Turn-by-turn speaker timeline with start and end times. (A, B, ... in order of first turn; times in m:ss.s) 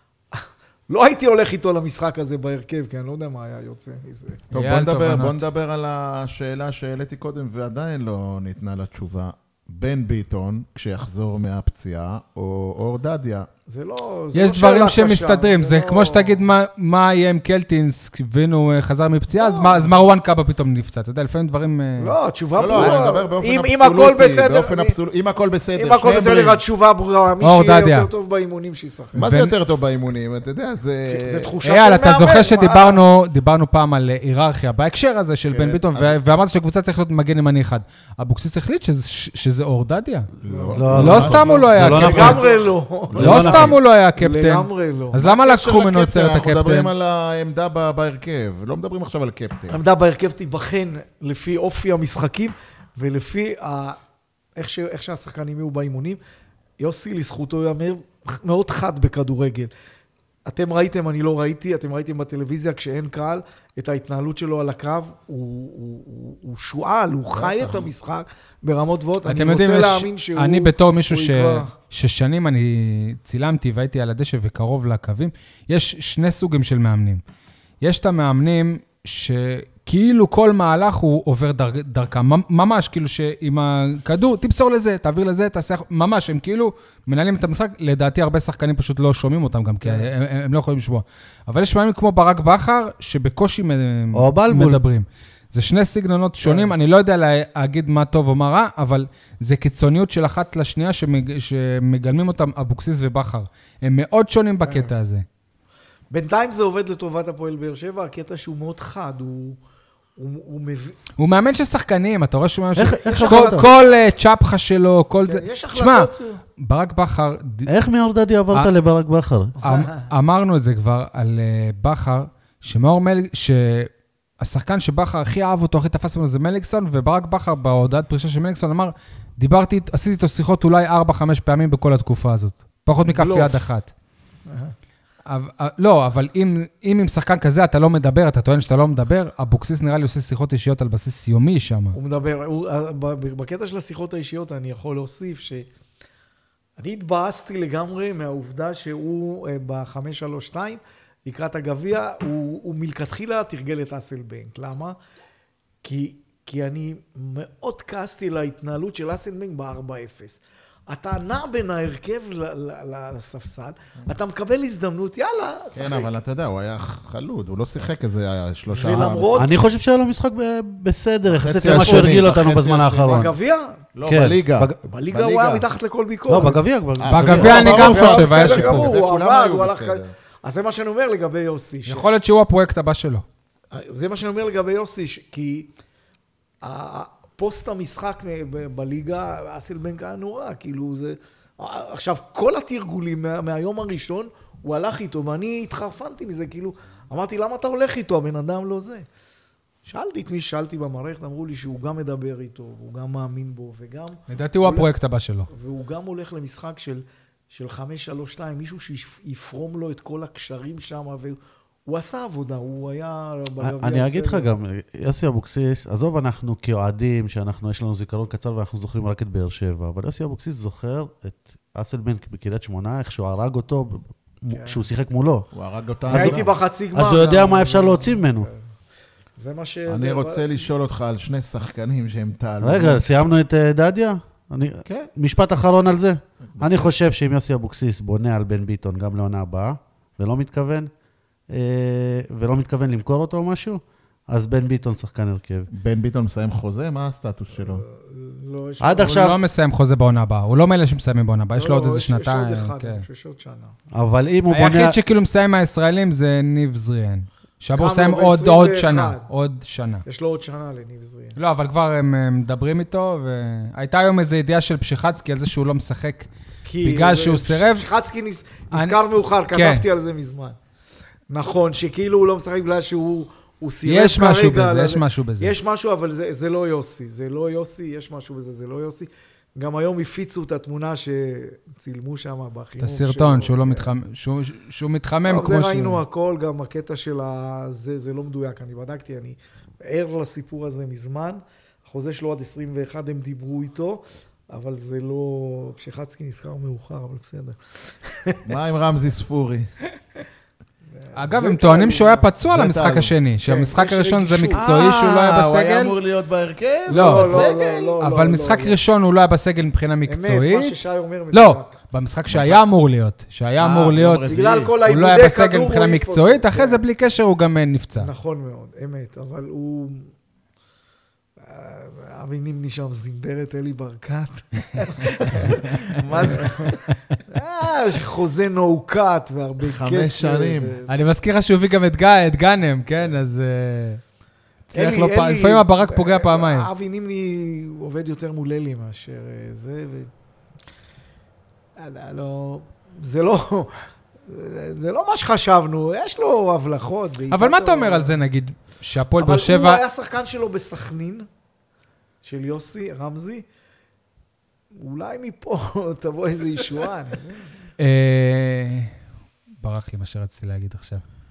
0:00.3-0:04.4 A
0:04.5-0:05.4 B
0:04.5-0:13.5 C
0:13.7-0:16.4 A
0:14.3-0:22.2 B
0:19.3-0:19.9 A
0:22.0-0:25.0 A
0:22.6-0:26.6 C
0:22.7-0:23.0 B
0:25.8-0:29.2 A
0:27.4-0:28.1 B
0:29.2-0:31.5 C
0:29.2-0:29.5 B
0:31.1-0:33.0 A
0:31.6-0:40.3 B
0:35.5-0:36.2 C
0:40.4-0:42.3 C
0:40.4-0:45.2 A
0:40.7-0:42.6 D
0:40.9-0:42.4 B
0:43.1-0:43.6 C
0:43.1-0:43.8 D
0:43.2-0:46.9 B
0:45.2-0:49.8 C
0:49.7-0:54.0 A
0:54.6-0:56.2 A
0:56.8-0:59.7 A
1:00.5-1:11.7 A
1:07.3-1:07.9 C
1:09.3-1:17.2 B
1:17.8-1:45.2 B
1:29.8-1:30.1 A
1:34.1-1:34.8 D
1:36.4-1:36.7 A
1:44.6-1:44.9 A
1:46.1-1:49.6 A
1:50.2-1:51.0 A
1:51.2-1:57.7 B
1:52.8-1:53.7 D
1:53.0-1:53.8 A
1:55.3-1:56.4 A
1:57.7-1:59.6 D
1:59.6-2:00.0 A
1:59.6-2:13.9 B
2:13.1-2:13.6 A
2:14.5-2:14.8 A
2:15.3-2:22.0 B
2:21.9-2:25.7 A
2:26.8-2:35.0 A
2:35.8-2:46.1 A
2:45.8-2:49.4 C
2:48.7-2:49.6 A
2:49.3-2:53.3 D
2:51.3-2:53.3 C
2:51.6-2:52.2 A
2:53.1-2:53.8 A
2:54.0-2:55.6 C
2:54.0-2:54.8 D
2:54.8-2:56.6 A
2:56.3-2:57.8 D
2:57.0-3:00.1 C
2:57.1-2:58.9 B
2:57.3-3:02.1 A
3:01.9-3:03.2 B
3:03.7-3:05.7 A
3:06.6-3:19.0 A
3:19.8-3:24.9 A
3:24.3-3:25.5 B
3:25.5-3:34.5 A
3:33.6-3:45.5 D
3:44.5-3:44.8 A
3:45.5-3:46.5 C
3:46.1-3:48.5 D
3:46.1-3:48.6 A
3:49.4-3:50.6 A
3:49.9-3:53.1 C
3:52.6-4:00.9 D
3:56.6-3:56.9 C
4:01.5-4:05.7 D
4:05.7-4:07.8 C
4:07.5-4:09.4 A
4:08.8-4:09.4 D
4:09.0-4:13.0 B
4:11.6-4:13.8 A
4:13.9-4:15.0 D
4:14.5-4:20.0 B
4:17.8-4:19.3 A
4:20.0-4:21.4 A
4:21.4-4:26.3 B
4:26.6-4:30.6 A
4:26.8-4:27.9 B
4:28.7-4:29.0 B
4:29.5-4:29.8 B
4:31.3-4:43.9 A
4:33.8-4:35.5 B
4:42.8-4:46.0 B
4:45.2-4:58.4 A
4:58.5-4:59.7 C
5:01.0-5:02.3 A
5:01.1-5:06.0 B
5:02.4-5:03.1 C
5:03.4-5:04.6 A
5:04.5-5:08.0 C
5:06.9-5:08.8 A
5:06.9-5:07.5 B
5:08.0-5:10.8 B
5:10.1-5:11.8 A
5:11.3-5:18.1 B
5:12.3-5:12.6 C
5:13.6-5:14.7 C
5:14.3-5:16.8 A
5:18.0-5:20.1 A
5:21.4-5:30.9 A
5:25.3-5:26.5 B
5:29.7-5:30.8 C
5:30.9-5:34.0 B
5:34.7-5:36.7 B
5:34.7-5:40.1 A
5:41.8-5:43.7 A
5:44.3-5:48.2 A
5:47.3-5:49.8 B
5:49.2-5:51.3 A
5:52.2-5:53.4 A
5:54.8-5:57.5 A
5:57.8-5:58.9 B
5:59.6-6:01.0 B